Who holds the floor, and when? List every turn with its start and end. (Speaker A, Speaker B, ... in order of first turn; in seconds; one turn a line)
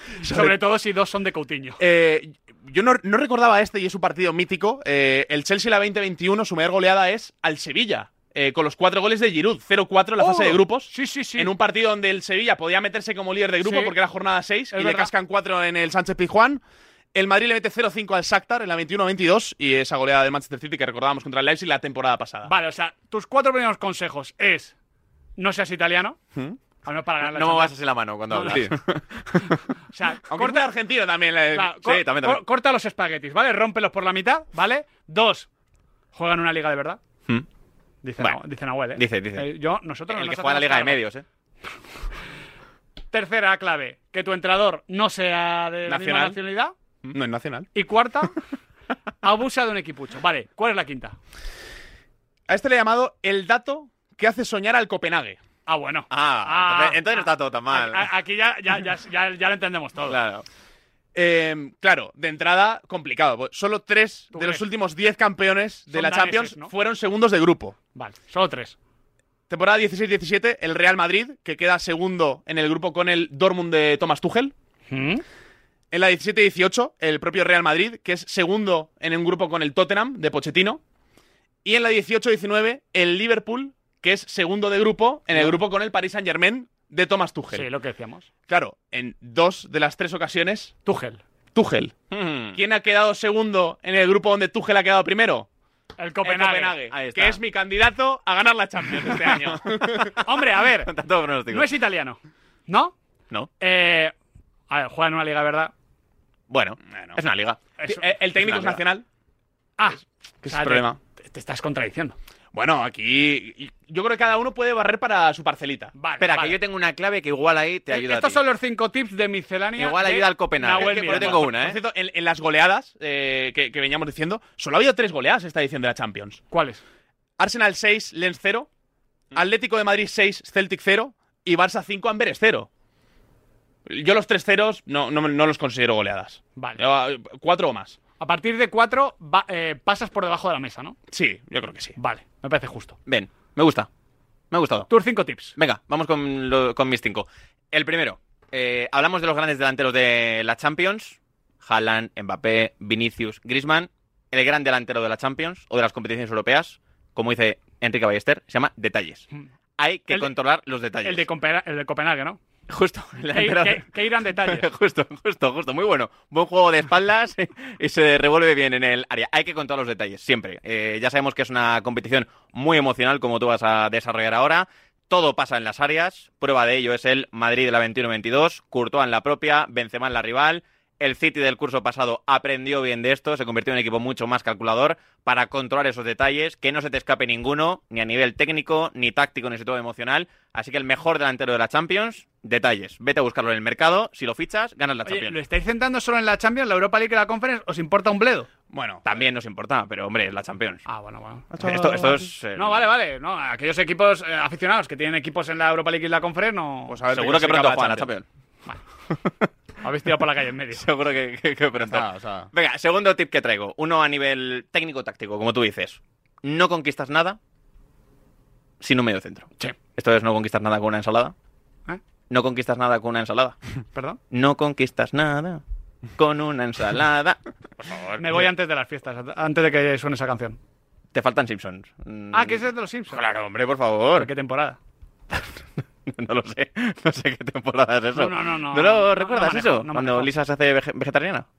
Speaker A: 0.2-1.8
Speaker B: 0.2-0.5
Speaker B: 1.8-16.6
Speaker A: 10.2-11.5
Speaker A: 13.6-13.9
Speaker A: 14.7-15.1
Speaker B: 17.1-22.5
Speaker A: 22.4-24.7
Speaker A: 25.4-26.2
Speaker A: 26.8-27.8
Speaker C: 27.2-28.8
Speaker A: 28.3-28.6
Speaker B: 28.5-29.0
Speaker A: 29.9-30.7
Speaker B: 30.3-31.8
Speaker A: 31.5-35.5
Speaker C: 31.8-32.4
Speaker A: 36.1-37.0
Speaker A: 38.0-41.0
Speaker C: 38.9-39.5
Speaker C: 40.1-41.2
Speaker A: 43.1-46.7
Speaker B: 45.9-46.4
Speaker B: 47.1-47.7
Speaker A: 47.7-48.4
Speaker A: 49.2-51.2
Speaker B: 52.5-55.4
Speaker A: 55.6-60.2
Speaker C: 56.1-58.0
Speaker C: 60.1-60.4
Speaker B: 61.1-67.8
Speaker A: 64.3-64.6
Speaker A: 65.9-66.7
Speaker A: 67.9-68.8
Speaker B: 69.5-74.5
Speaker A: 74.9-75.2
Speaker B: 75.9-80.8
Speaker B: 81.6-87.7
Speaker A: 87.5-88.3
Speaker B: 88.5-90.7
Speaker A: 90.8-91.2
Speaker B: 91.5-91.9
Speaker C: 92.1-92.6
Speaker B: 92.5-95.5
Speaker A: 96.0-96.8
Speaker B: 96.2-100.1
Speaker C: 96.9-97.4
Speaker C: 99.0-100.2
Speaker A: 100.2-100.9
Speaker C: 100.7-101.7
Speaker A: 101.5-102.9
Speaker A: 103.6-104.1
Speaker A: 104.7-105.7
Speaker C: 106.5-107.6
Speaker B: 106.9-107.2
Speaker A: 107.8-108.0
Speaker B: 107.8-109.0
Speaker C: 108.4-108.8
Speaker A: 109.8-112.2
Speaker B: 110.4-111.0
Speaker B: 112.5-115.9
Speaker A: 115.9-116.6
Speaker C: 116.2-118.4
Speaker A: 117.9-121.4
Speaker C: 119.8-121.8
Speaker B: 120.7-126.4
Speaker A: 126.5-126.8
Speaker B: 127.4-128.7
Speaker B: 129.3-132.7
Speaker B: 133.9-138.0
Speaker A: 138.2-140.9
Speaker B: 141.1-141.9
Speaker A: 142.0-143.0
Speaker C: 143.1-143.9
Speaker C: 144.5-144.9
Speaker A: 144.9-145.6
Speaker C: 145.6-159.2
Speaker C: 159.8-161.2
Speaker A: 161.0-162.4
Speaker C: 162.7-163.9
Speaker A: 163.3-164.7
Speaker C: 164.4-195.3
Speaker A: 195.0-198.5
Speaker B: 198.7-199.2
Speaker C: 199.0-200.8
Speaker A: 200.8-201.5
Speaker B: 201.5-202.3
Speaker C: 201.6-202.8
Speaker A: 202.6-207.0
Speaker B: 206.9-208.1
Speaker C: 207.1-208.2
Speaker A: 209.8-210.8
Speaker C: 210.7-217.4
Speaker B: 211.8-212.5
Speaker C: 218.8-221.3
Speaker C: 222.3-223.6
Speaker A: 223.9-224.2
Speaker C: 224.3-225.6
Speaker C: 226.2-228.5
Speaker A: 228.2-230.6
Speaker C: 231.1-234.3
Speaker A: 232.3-233.2
Speaker A: 234.2-234.8
Speaker C: 236.1-241.5
Speaker A: 238.1-240.3